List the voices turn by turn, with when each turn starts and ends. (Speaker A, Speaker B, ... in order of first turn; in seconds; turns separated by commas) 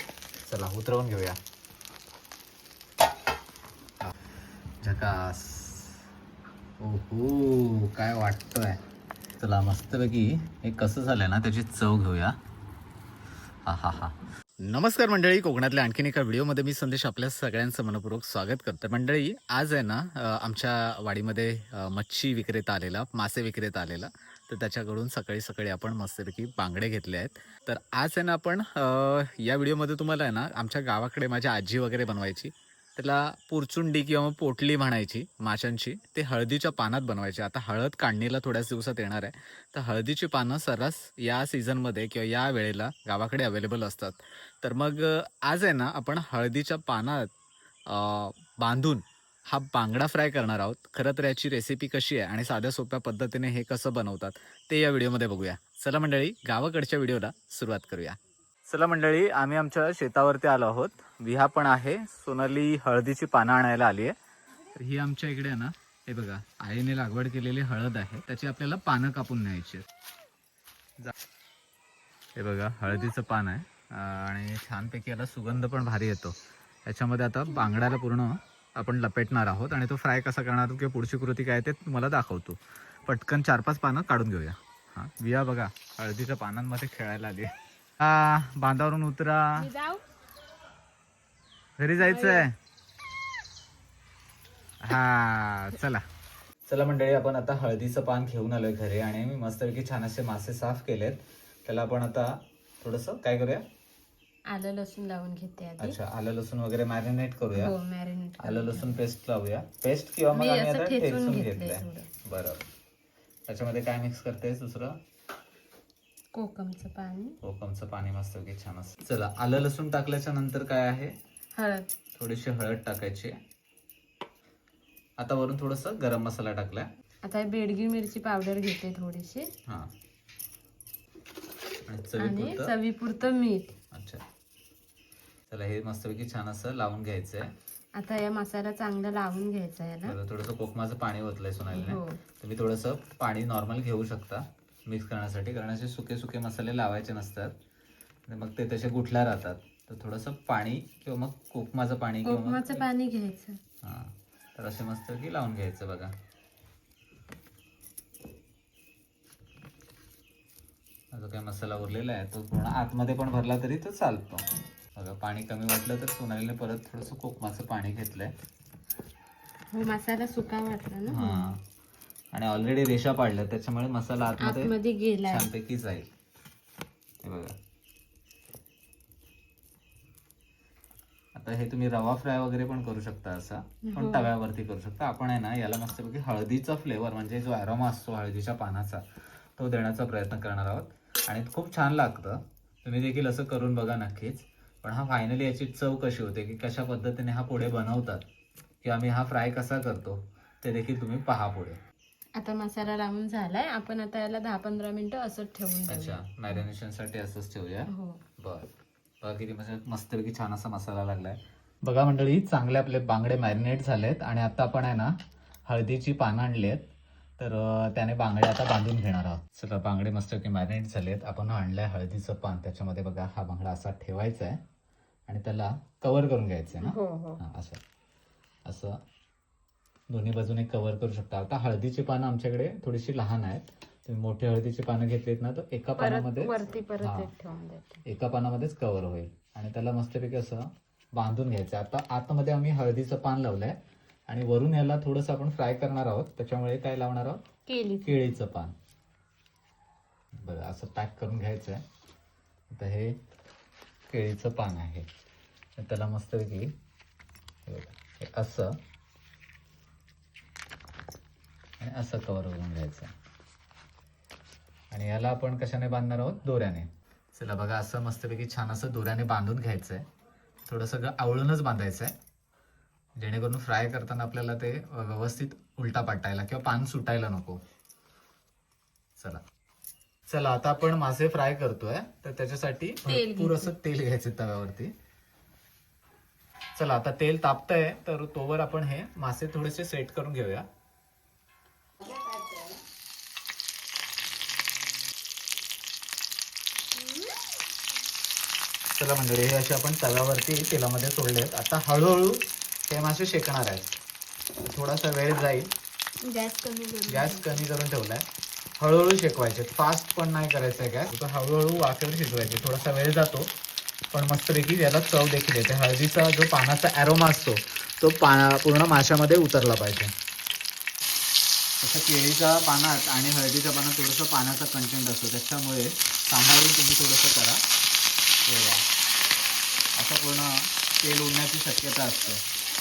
Speaker A: 0.4-1.4, Speaker A: 4.8-6.0, Speaker A: 6.8-8.8, Speaker A: 9.4-12.3, Speaker A: 13.6-47.3, Speaker A: 47.9-64.1, Speaker A: 64.7-69.8, Speaker A: 72.3-89.7, Speaker B: 89.6-90.0, Speaker A: 91.8-92.5, Speaker B: 92.0-92.4, Speaker A: 94.8-96.0, Speaker A: 96.7-103.6, Speaker B: 104.5-106.0, Speaker A: 105.8-107.7, Speaker B: 107.5-109.0, Speaker A: 108.4-112.7, Speaker B: 110.3-112.1, Speaker A: 113.5-115.0, Speaker B: 116.3-117.4, Speaker A: 117.4-121.1, Speaker B: 121.5-121.9, Speaker A: 122.2-123.3, Speaker A: 125.2-126.9, Speaker B: 127.2-129.5, Speaker A: 131.8-132.7, Speaker B: 132.2-133.7, Speaker A: 133.9-134.2, Speaker A: 135.5-137.5, Speaker B: 137.9-140.2, Speaker A: 140.0-147.5, Speaker B: 141.7-142.2, Speaker A: 148.3-152.8, Speaker B: 152.2-153.6, Speaker A: 153.8-156.1, Speaker A: 161.1-168.3, Speaker B: 169.7-171.5, Speaker A: 171.1-171.6, Speaker A: 172.3-174.7, Speaker B: 174.4-175.5, Speaker A: 175.3-176.1, Speaker A: 177.2-177.5, Speaker A: 181.3-189.0, Speaker B: 183.9-184.3, Speaker A: 189.6-198.2, Speaker A: 198.8-201.8, Speaker B: 202.3-206.6, Speaker A: 205.8-208.7, Speaker B: 207.9-208.2, Speaker A: 209.2-215.1, Speaker A: 215.7-216.8, Speaker A: 217.4-224.6, Speaker A: 225.3-227.8, Speaker B: 226.8-227.4, Speaker A: 228.7-229.0, Speaker A: 230.1-237.3, Speaker B: 236.0-238.0, Speaker A: 238.0-243.8, Speaker A: 244.3-247.4, Speaker B: 247.7-248.3, Speaker A: 248.0-248.7, Speaker A: 250.4-251.8, Speaker A: 252.7-253.2, Speaker A: 254.1-255.1, Speaker A: 255.8-256.7, Speaker A: 257.6-258.8, Speaker A: 261.8-263.1, Speaker A: 264.9-270.0, Speaker A: 270.7-272.1, Speaker A: 273.2-277.6, Speaker A: 279.2-279.4, Speaker A: 280.3-284.9, Speaker B: 283.1-283.7, Speaker A: 286.7-290.6, Speaker A: 298.9-304.0, Speaker A: 304.6-305.7, Speaker B: 306.2-307.6, Speaker A: 307.1-308.2, Speaker A: 308.8-313.5, Speaker A: 314.1-320.1, Speaker A: 321.8-327.6, Speaker A: 328.4-328.8, Speaker A: 329.9-332.4